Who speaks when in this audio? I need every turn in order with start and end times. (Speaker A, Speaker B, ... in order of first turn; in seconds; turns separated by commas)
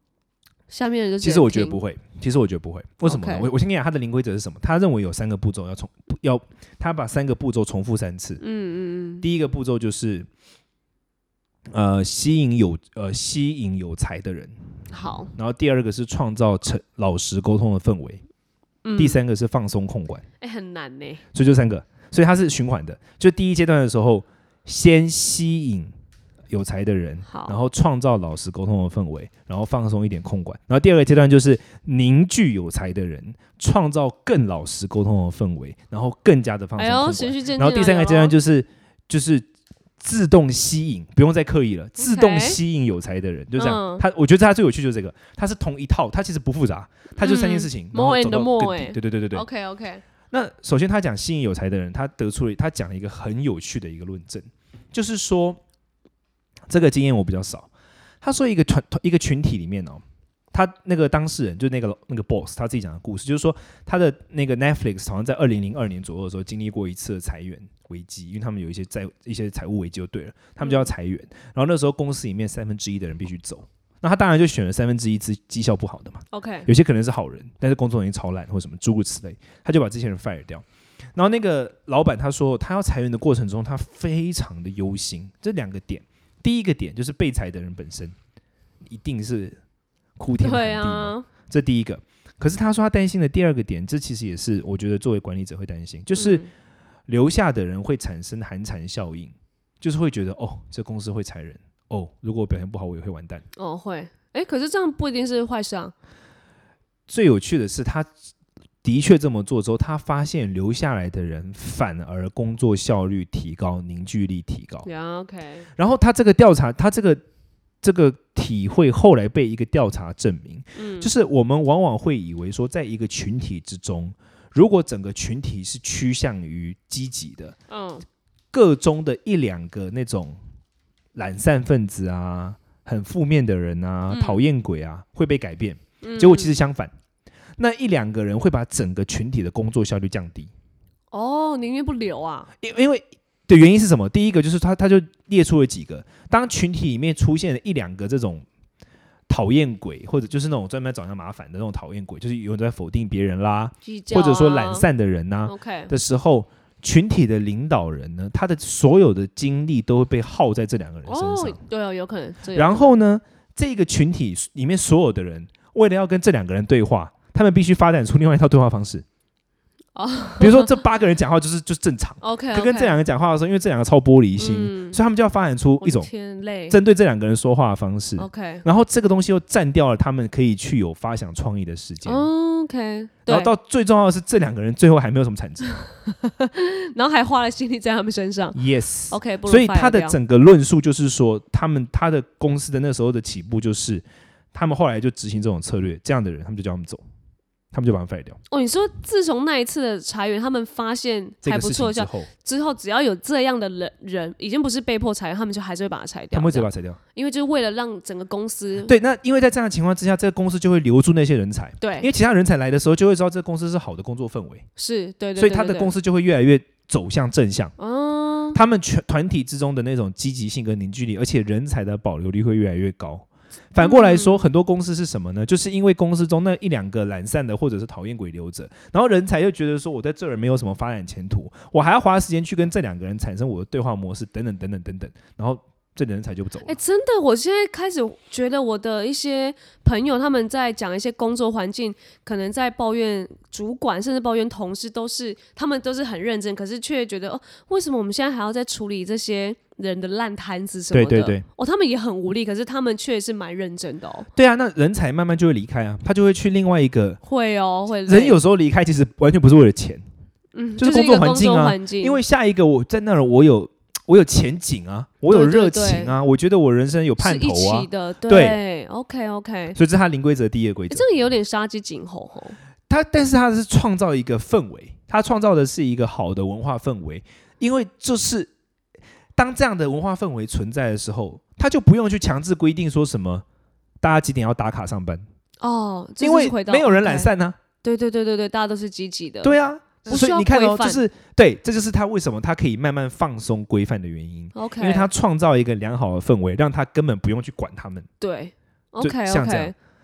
Speaker A: 0.7-1.8, Speaker B: 1.2-8.4, Speaker A: 3.0-3.5, Speaker A: 8.4-9.2, Speaker B: 9.2-10.3, Speaker B: 11.7-14.6, Speaker A: 14.9-15.3, Speaker B: 15.3-18.2, Speaker A: 18.8-19.2, Speaker B: 19.0-20.2, Speaker A: 20.4-21.2, Speaker B: 21.3-25.9, Speaker B: 26.5-39.5, Speaker A: 27.3-27.6, Speaker A: 36.8-38.4, Speaker B: 40.0-49.5, Speaker A: 42.0-42.6, Speaker A: 43.6-44.0, Speaker A: 47.2-50.0, Speaker B: 50.3-55.6, Speaker B: 56.7-57.7, Speaker B: 58.2-80.6, Speaker A: 70.6-70.9, Speaker A: 76.3-76.7, Speaker B: 81.2-88.2, Speaker B: 88.9-89.6, Speaker B: 90.2-96.5, Speaker A: 90.4-91.3, Speaker A: 96.2-96.5, Speaker B: 97.1-103.5, Speaker A: 103.5-105.9, Speaker B: 107.1-108.1, Speaker B: 108.8-114.9, Speaker A: 114.8-115.7, Speaker B: 115.8-117.2, Speaker B: 117.8-127.6, Speaker A: 120.8-121.1, Speaker A: 127.7-128.1, Speaker B: 128.5-130.4, Speaker B: 131.2-136.9, Speaker A: 134.1-134.4, Speaker A: 136.0-136.5, Speaker B: 137.6-140.5, Speaker A: 141.1-142.5, Speaker B: 142.6-148.4, Speaker B: 149.3-161.6, Speaker A: 153.8-154.9, Speaker A: 155.5-155.9, Speaker A: 161.1-162.9, Speaker B: 162.5-169.1, Speaker A: 169.9-170.7, Speaker B: 170.4-176.1, Speaker A: 172.2-173.0, Speaker A: 174.4-175.0, Speaker A: 175.8-176.8, Speaker B: 176.7-182.3, Speaker A: 178.2-178.7, Speaker A: 182.1-183.5, Speaker B: 183.3-185.9, Speaker A: 186.1-188.6, Speaker B: 188.5-197.0, Speaker A: 189.1-190.2, Speaker B: 197.7-198.4, Speaker A: 198.5-208.9, Speaker B: 201.4-202.3, Speaker B: 206.3-207.0, Speaker B: 208.8-214.7, Speaker A: 211.8-212.1, Speaker A: 214.8-215.9, Speaker B: 215.4-217.7, Speaker A: 217.8-218.6, Speaker B: 218.5-236.8, Speaker A: 223.8-224.4, Speaker A: 236.6-254.3, Speaker B: 250.9-251.4, Speaker B: 254.3-257.2, Speaker A: 257.2-258.4, Speaker B: 258.1-260.0, Speaker A: 260.5-262.2, Speaker B: 260.8-268.6, Speaker A: 265.3-266.2, Speaker A: 267.2-269.8, Speaker B: 269.8-271.1, Speaker A: 270.9-272.6, Speaker B: 272.9-278.5, Speaker B: 279.4-283.4, Speaker B: 284.0-285.2, Speaker A: 285.6-287.3, Speaker B: 286.2-287.6, Speaker A: 287.8-291.0, Speaker B: 289.4-298.1, Speaker A: 294.5-295.1, Speaker A: 298.2-299.7, Speaker B: 299.0-299.7